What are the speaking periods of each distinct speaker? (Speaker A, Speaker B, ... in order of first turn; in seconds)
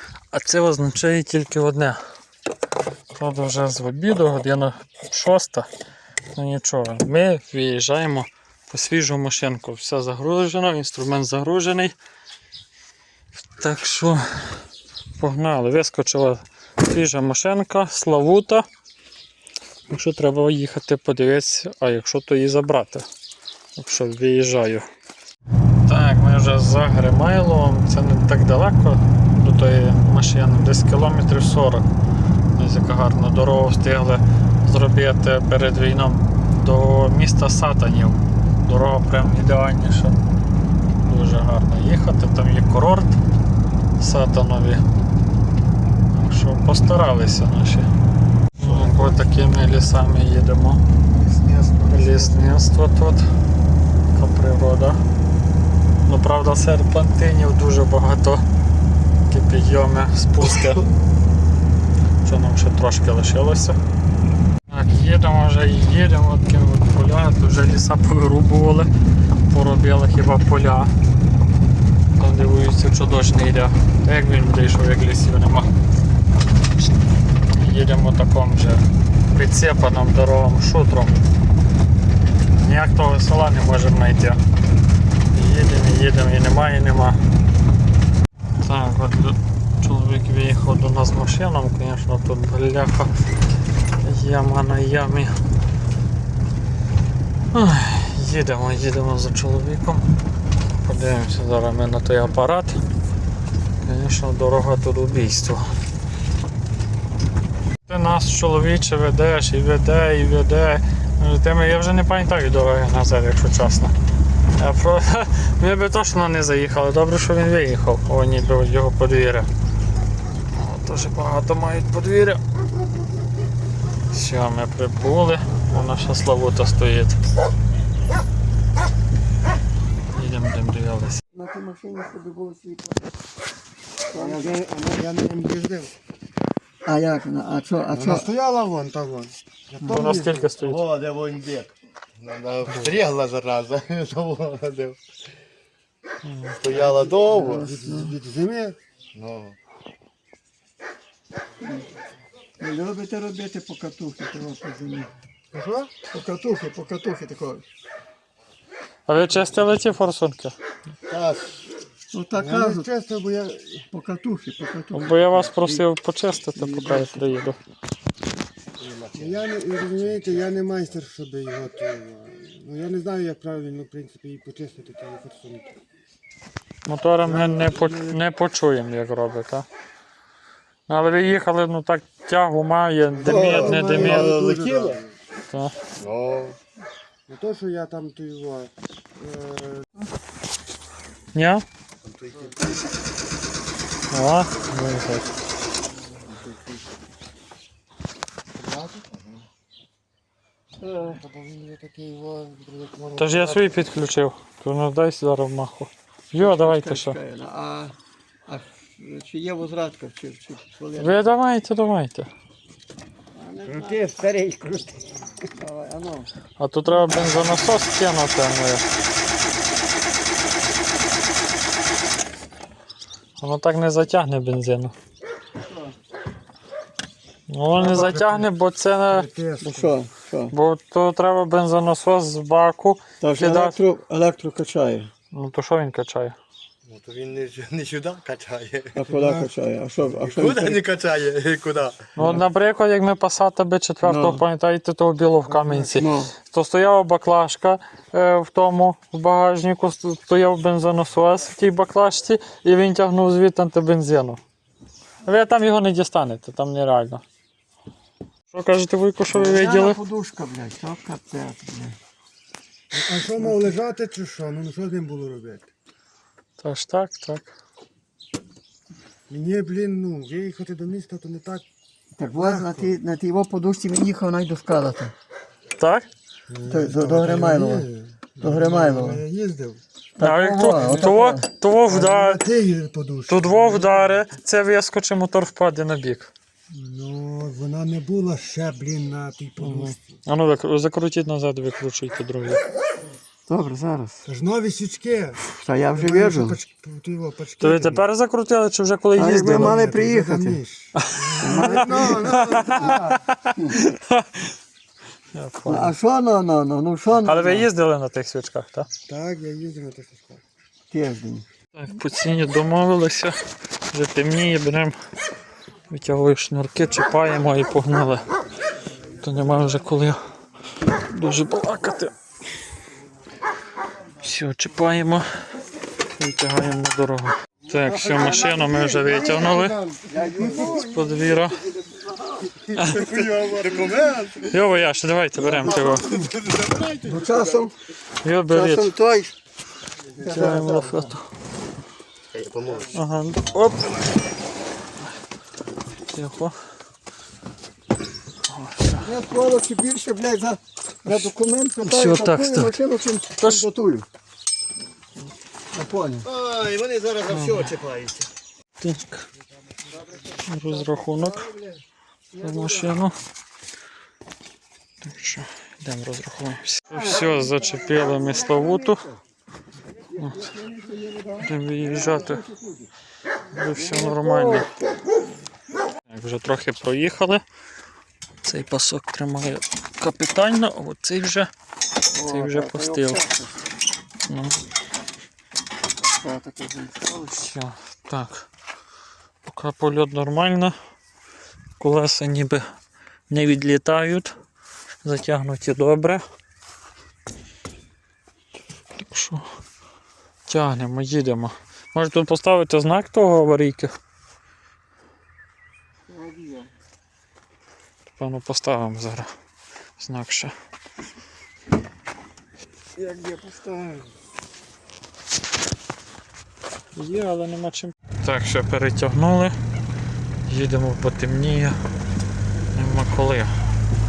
Speaker A: 0.3-2.0, 3.1-5.7, 6.3-11.9, 13.5-14.6, 15.2-18.7, 19.9-23.1, 23.8-24.9, 25.9-31.9, 32.6-40.2, 41.0-43.2, 44.0-44.8, 46.1-47.9, 48.6-50.8, 51.9-53.3, 54.1-55.0, 56.0-58.4, 59.3-60.9, 62.2-63.8, 64.7-68.9, 69.5-70.9, 72.2-75.7, 77.5-81.2, 82.6-84.4, 85.3-87.2, 88.6-93.1, 94.0-95.4, 97.5-100.1, 100.8-102.8, 103.8-105.7, 107.9-113.9, 114.6-119.5, 120.5-122.4, 124.1-127.2, 130.1-131.2, 139.9-140.8, 146.2-146.6, 159.1-160.6, 164.9-167.6, 176.9-179.7, 180.9-184.3, 185.5-185.7, 191.3-191.6, 194.1-195.3, 203.2-207.2, 211.0-212.3, 216.6-218.8, 223.4-224.9, 227.5-229.3, 230.5-233.8, 235.3-236.4, 242.2-254.4, 255.2-257.2, 258.5-260.0, 266.6-267.5, 275.8-276.1, 280.2-282.4, 283.3-286.3, 289.6-292.6, 297.6-299.8, 301.0-304.5, 305.3-305.9, 307.2-308.9, 311.7-313.4, 313.9-315.0, 315.9-318.3, 319.2-320.2, 320.8-322.1, 324.2-325.4, 326.0-329.8, 330.6-331.7, 332.7-333.1, 334.4-336.1, 338.2-338.9, 340.2-341.2, 342.9-344.0, 346.1-346.6, 348.5-349.1, 351.8-352.8, 353.4-353.7, 357.3-357.8, 358.8-359.2, 360.4-361.5, 362.3-363.2, 365.0-369.1, 370.2-370.5, 371.4-372.4, 373.5-374.7, 376.1-377.4, 378.4-381.5, 382.2-383.2, 384.3-384.6, 387.3-388.5, 389.4-390.8, 391.8-392.6, 393.3-394.4, 395.0-396.2, 398.9-399.4, 400.5-403.9, 408.1-409.3, 410.0-410.5, 416.9-419.6, 420.5-421.8, 422.7-423.5
Speaker B: 48.6-49.2, 51.1-52.6, 131.3-133.1, 134.1-134.5, 136.8-138.3, 147.2-148.2, 151.6-151.9, 152.6-155.1, 156.1-157.6, 162.1-162.9, 163.9-165.8, 166.6-167.3, 183.2-184.4, 200.8-201.2, 206.4-208.0, 208.5-211.3, 213.3-214.1, 215.6-216.3, 229.6-230.5, 233.2-235.1, 238.9-240.8, 242.2-242.4, 244.0-244.4, 245.9-246.3, 259.3-262.0, 272.2-275.1, 276.7-277.9, 278.4-279.2, 280.2-281.5, 293.5-294.2, 295.4-296.6, 299.1-300.6, 301.4-302.3, 303.6-303.8, 305.7-307.7, 310.9-311.5, 330.1-332.1, 337.0-337.8, 338.5-339.4, 340.2-341.1, 349.0-354.1, 355.7-356.3, 362.4-362.9, 366.9-369.1, 370.1-372.9, 373.7-374.8, 382.1-383.6, 386.0-387.5, 406.1-406.7, 412.9-414.1
Speaker C: 134.1-135.9, 137.9-140.5, 146.7-148.8, 155.5-155.9, 162.3-163.9, 169.2-175.7, 177.2-178.2, 183.1-185.1, 187.3-189.9, 201.0-203.7, 213.7-215.2, 227.8-228.5, 229.1-230.0, 239.1-239.5, 245.5-245.9, 262.9-265.7, 269.3-271.6, 272.2-272.9, 276.5-279.8, 280.8-281.1, 281.9-284.2, 286.7-290.0, 294.3-295.4, 295.9-298.1, 299.3-303.2, 309.1-310.4, 327.7-330.9, 332.6-334.3
Speaker D: 140.6-145.0, 146.6-147.7, 149.2-149.6, 161.1-161.6, 168.8-170.4, 183.3-185.0, 186.0-186.6, 192.1-192.6, 199.0-199.3, 236.9-239.0, 240.1-242.2, 332.9-334.5, 335.5-337.6, 342.3-342.9, 356.2-358.3